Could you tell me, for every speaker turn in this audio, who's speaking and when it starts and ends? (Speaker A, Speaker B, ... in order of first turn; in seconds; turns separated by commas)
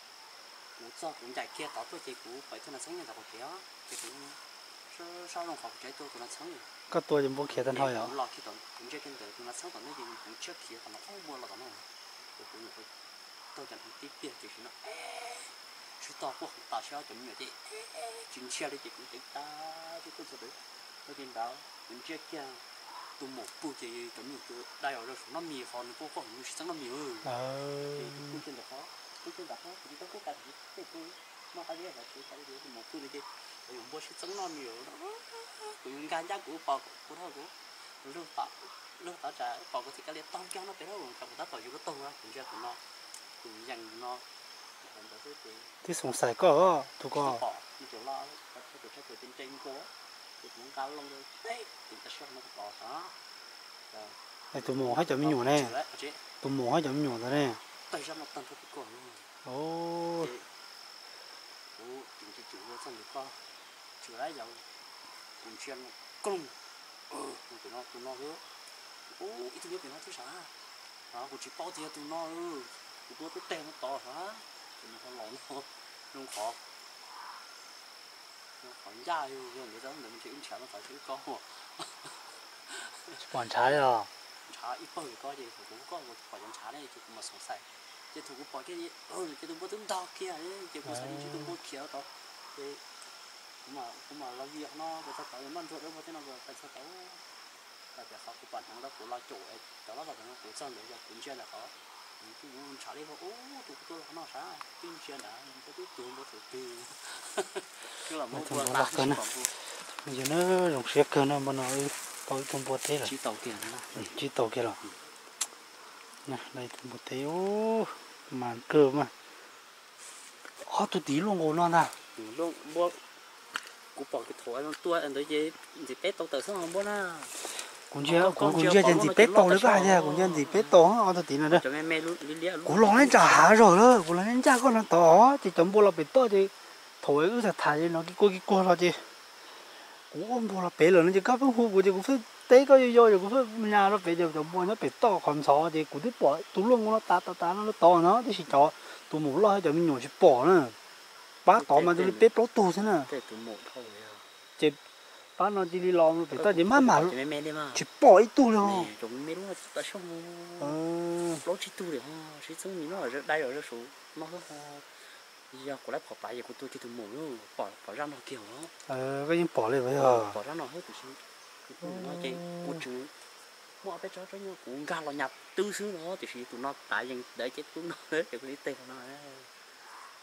Speaker A: 0.8-6.7, Speaker B: 6.9-8.1, Speaker A: 7.5-12.9, Speaker A: 13.5-27.3, Speaker B: 27.2-28.4, Speaker A: 27.9-42.8, Speaker A: 43.4-44.2, Speaker A: 44.8-45.7, Speaker B: 45.8-47.4, Speaker A: 47.1-53.2, Speaker A: 53.9-56.2, Speaker B: 54.5-55.7, Speaker B: 56.4-57.6, Speaker A: 57.9-59.3, Speaker B: 59.4-60.3, Speaker A: 60.2-60.5, Speaker A: 61.7-63.5, Speaker A: 64.0-64.7, Speaker A: 65.4-66.6, Speaker A: 67.1-68.4, Speaker A: 69.1-70.5, Speaker A: 71.1-76.6, Speaker A: 78.6-83.8, Speaker B: 83.2-84.1, Speaker A: 84.4-92.8, Speaker B: 90.9-91.5, Speaker A: 93.6-97.2, Speaker A: 97.9-109.5, Speaker B: 108.3-113.1, Speaker A: 113.0-114.1, Speaker B: 114.0-114.8, Speaker B: 116.2-119.1, Speaker B: 120.6-122.0, Speaker A: 122.2-123.0, Speaker A: 123.7-127.4, Speaker B: 127.9-131.6, Speaker A: 128.0-130.8, Speaker A: 131.5-133.6, Speaker B: 132.7-139.1, Speaker B: 140.1-150.8, Speaker B: 151.4-153.1, Speaker A: 151.5-152.3, Speaker A: 153.1-154.3, Speaker B: 155.4-157.1, Speaker A: 156.3-157.9, Speaker B: 157.8-158.9, Speaker A: 158.6-160.8, Speaker B: 160.6-161.5, Speaker A: 161.4-168.7, Speaker B: 168.9-170.4, Speaker A: 170.0-173.1, Speaker B: 171.8-172.8, Speaker A: 173.8-179.5